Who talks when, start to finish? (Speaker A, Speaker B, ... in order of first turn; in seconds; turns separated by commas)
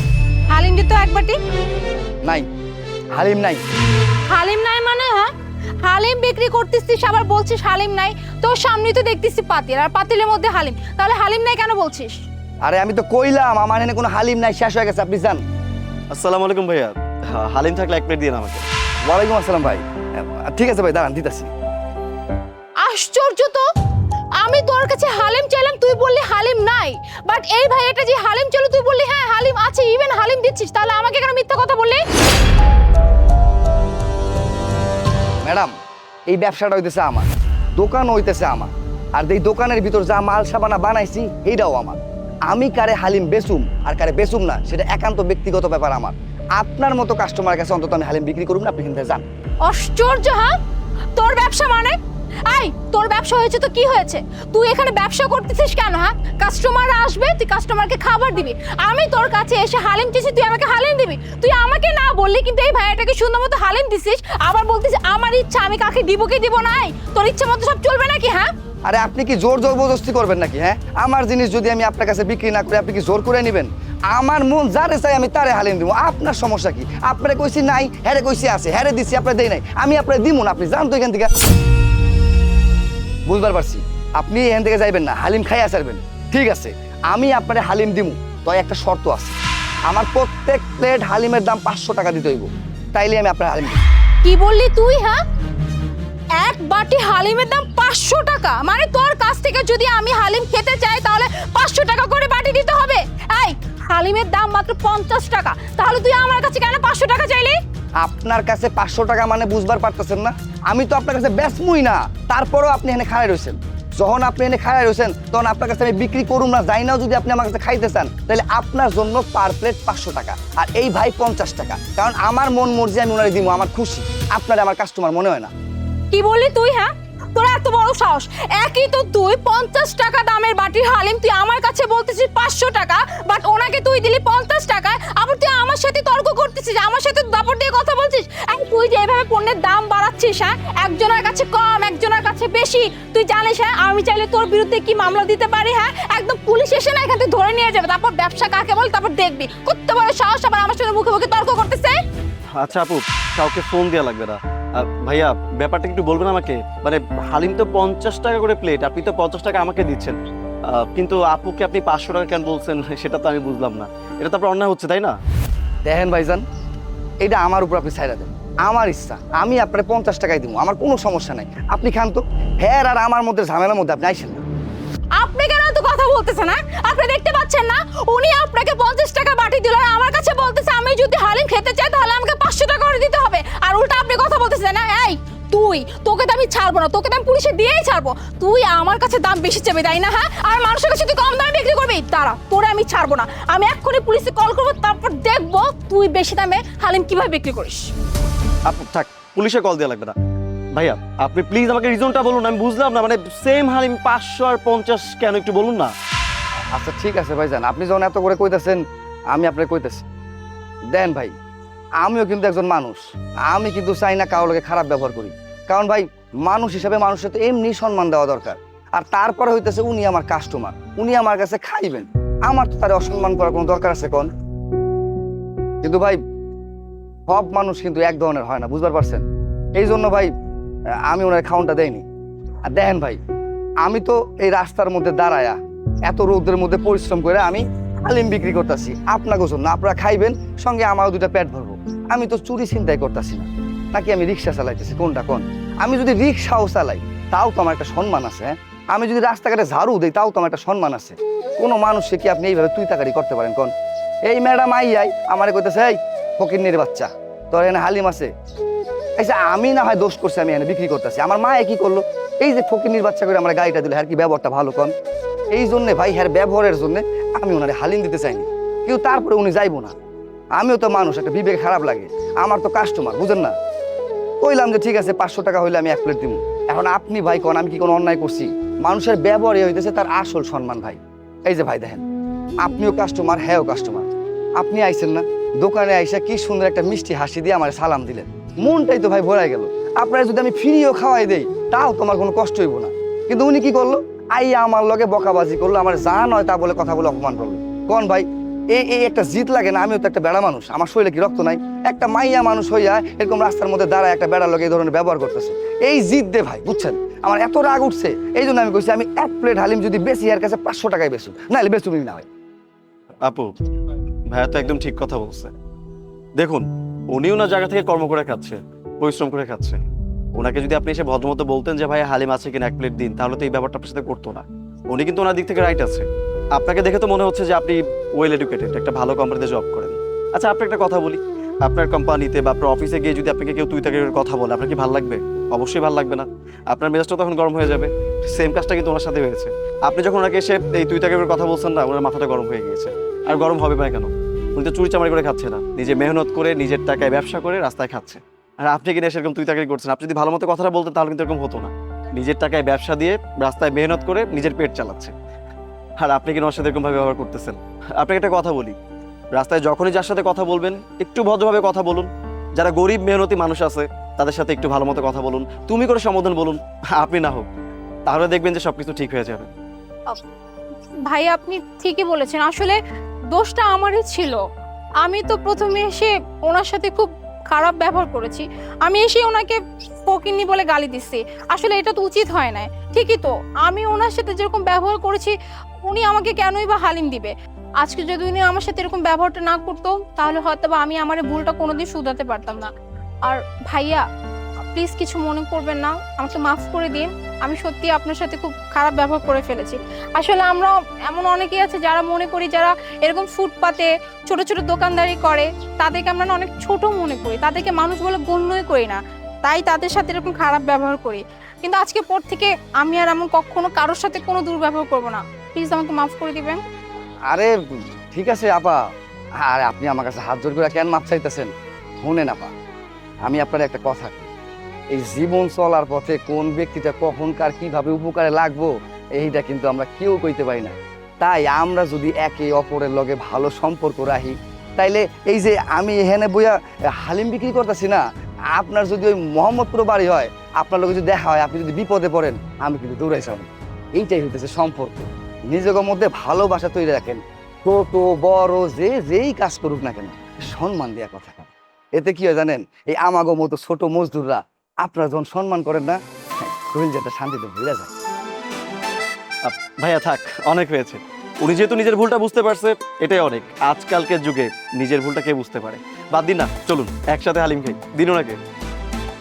Speaker A: 0.5-1.4, Speaker B: 3.1-3.6, Speaker A: 4.3-5.3, Speaker A: 5.8-12.2, Speaker B: 12.7-15.4, Speaker C: 16.1-18.6, Speaker B: 19.1-21.5, Speaker A: 22.8-23.6, Speaker A: 24.4-32.0, Speaker B: 35.4-35.7, Speaker B: 36.3-49.3, Speaker A: 49.6-50.5, Speaker A: 51.2-52.0, Speaker A: 52.5-68.5, Speaker B: 68.9-81.3, Speaker B: 83.3-89.4, Speaker B: 89.9-93.8, Speaker A: 94.2-95.2, Speaker A: 96.4-107.6, Speaker B: 108.0-125.5, Speaker A: 126.1-152.0, Speaker C: 152.6-160.2, Speaker C: 160.7-165.2, Speaker B: 165.8-166.4, Speaker B: 167.2-174.4, Speaker A: 175.2-197.9, Speaker C: 198.7-200.2, Speaker C: 200.8-205.9, Speaker B: 206.7-210.0, Speaker B: 210.9-211.3, Speaker B: 212.0-224.3, Speaker B: 225.8-226.2, Speaker B: 227.3-229.2, Speaker B: 229.8-230.3, Speaker B: 231.0-232.0, Speaker B: 232.7-233.2, Speaker B: 233.8-253.7, Speaker B: 254.2-258.3, Speaker B: 259.2-264.9, Speaker B: 265.5-269.9, Speaker B: 270.6-273.6, Speaker B: 274.4-282.0, Speaker B: 282.6-312.3, Speaker C: 314.3-315.5, Speaker C: 316.4-319.8, Speaker C: 320.4-355.1, Speaker C: 356.0-358.8, Speaker C: 359.4-367.5, Speaker C: 368.1-369.5, Speaker A: 371.1-372.8, Speaker A: 373.3-374.4, Speaker A: 375.0-392.7, Speaker A: 393.2-394.0, Speaker A: 394.7-416.6, Speaker B: 418.1-418.8, Speaker B: 419.4-421.5, Speaker B: 422.0-422.5, Speaker B: 423.2-424.3, Speaker B: 424.9-457.9, Speaker C: 459.4-468.4